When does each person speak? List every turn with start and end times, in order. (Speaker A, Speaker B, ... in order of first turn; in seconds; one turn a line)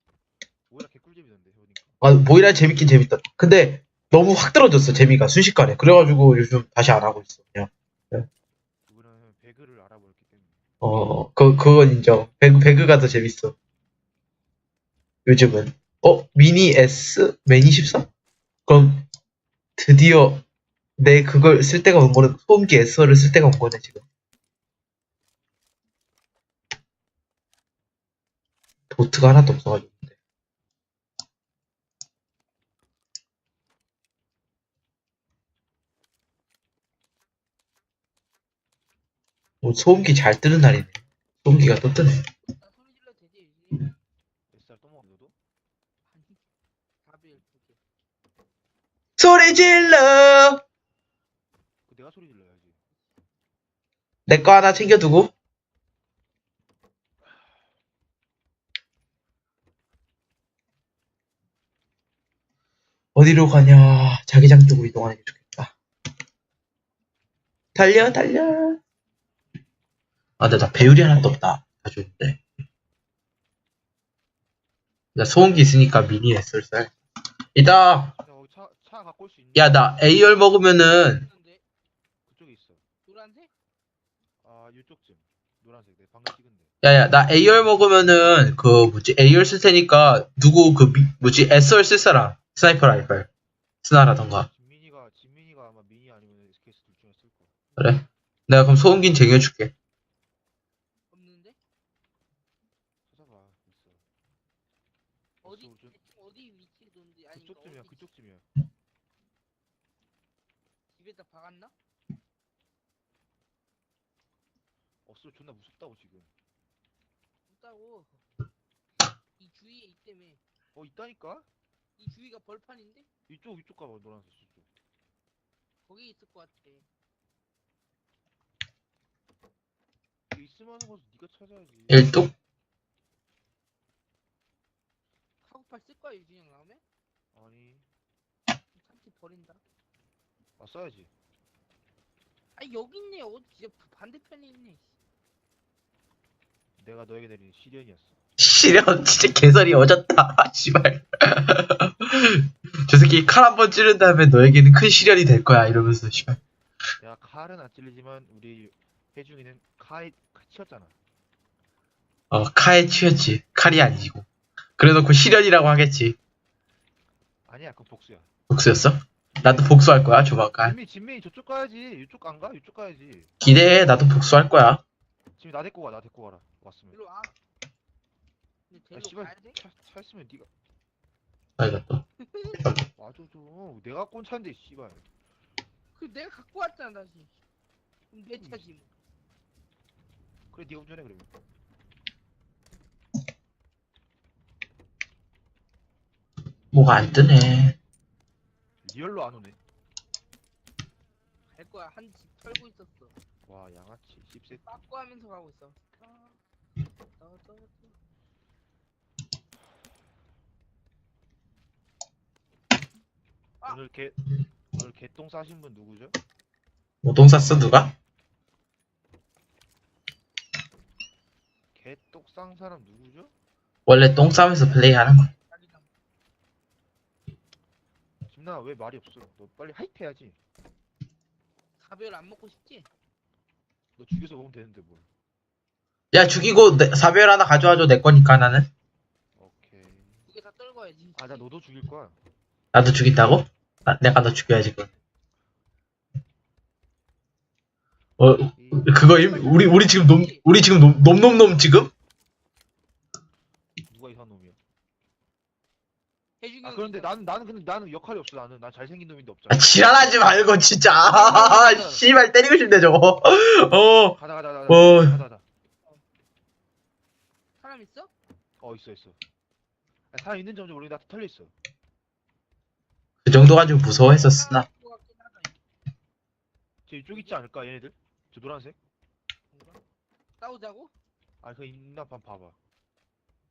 Speaker A: 0.7-2.0
Speaker B: 2.0-8.3
Speaker A: 8.9-10.7
Speaker B: 10.8-13.5
Speaker B: 15.3-18.1
Speaker B: 18.7-19.1
Speaker B: 19.8-20.4
Speaker B: 21.0-24.0
Speaker B: 28.9-30.1
Speaker B: 39.6-42.2
Speaker C: 42.5-43.9
Speaker A: 44.5-45.4
Speaker C: 46.0-46.5
Speaker C: 47.0-47.8
Speaker B: 49.2-50.6
Speaker A: 51.9-52.8
Speaker B: 54.3-55.3
Speaker A: 57.3-57.6
Speaker B: 63.1-65.7
Speaker B: 67.8-68.8
Speaker B: 70.4-72.4
Speaker B: 75.2-76.9
Speaker B: 77.5-78.2
Speaker A: 78.2-80.0
Speaker B: 79.5-81.3
Speaker C: 80.4-81.6
Speaker A: 82.2-82.8
Speaker C: 83.0-83.5
Speaker A: 84.4-86.7
Speaker B: 86.8-93.3
Speaker B: 93.8-94.5
Speaker A: 94.5-97.6
Speaker B: 97.8-99.7
Speaker C: 101.1-101.6
Speaker A: 103.1-104.0
Speaker C: 105.4-108.1
Speaker A: 105.4-106.0
Speaker A: 107.3-108.5
Speaker C: 110.9-111.7
Speaker A: 115.1-116.3
Speaker C: 117.5-118.2
Speaker C: 119.4-120.4
Speaker A: 120.8-121.5
Speaker C: 122.0-123.1
Speaker A: 123.3-124.7
Speaker C: 125.9-126.9
Speaker A: 130.3-132.2
Speaker B: 131.9-132.3
Speaker C: 135.4-136.8
Speaker A: 137.3-137.9
Speaker C: 138.8-139.6
Speaker A: 140.6-141.1
Speaker C: 142.6-144.9
Speaker A: 146.8-148.2
Speaker B: 148.4-156.4
Speaker A: 157.0-161.0
Speaker B: 162.3-164.3
Speaker B: 164.8-166.2
Speaker A: 167.5-168.3
Speaker B: 168.5-170.8
Speaker A: 169.4-169.9
Speaker A: 170.6-173.3
Speaker B: 173.4-174.8
Speaker A: 175.4-177.0
Speaker C: 176.9-177.3
Speaker C: 178.7-179.6
Speaker A: 178.9-180.5
Speaker B: 181.6-182.0
Speaker C: 182.3-182.6
Speaker A: 183.0-185.1
Speaker C: 186.0-187.3
Speaker C: 188.1-188.9
Speaker A: 188.3-188.6
Speaker A: 190.5-191.3
Speaker B: 196.7-197.8
Speaker A: 198.8-199.6
Speaker C: 201.6-203.2
Speaker A: 203.5-204.8
Speaker C: 204.5-206.4
Speaker C: 207.2-208.0
Speaker A: 213.7-216.2
Speaker B: 217.0-217.9
Speaker A: 221.8-223.3
Speaker B: 223.9-225.3
Speaker C: 225.5-225.9
Speaker A: 228.3-230.4
Speaker C: 231.8-232.9
Speaker A: 234.0-235.1
Speaker B: 236.1-238.7
Speaker A: 239.4-240.3
Speaker C: 240.3-241.4
Speaker A: 241.2-242.2
Speaker B: 242.7-244.9
Speaker B: 248.2-251.9
Speaker A: 248.6-249.0
Speaker C: 249.1-250.5
Speaker A: 253.9-254.6
Speaker C: 256.4-257.1
Speaker A: 256.6-260.1
Speaker B: 259.5-264.2
Speaker A: 261.0-262.1
Speaker A: 264.2-265.4
Speaker B: 264.7-265.1
Speaker C: 267.6-268.1
Speaker A: 268.6-269.2
Speaker A: 270.1-271.5
Speaker B: 273.2-274.7
Speaker C: 274.1-275.6
Speaker A: 276.9-278.8
Speaker C: 279.5-279.8
Speaker C: 280.4-280.9
Speaker A: 281.4-282.6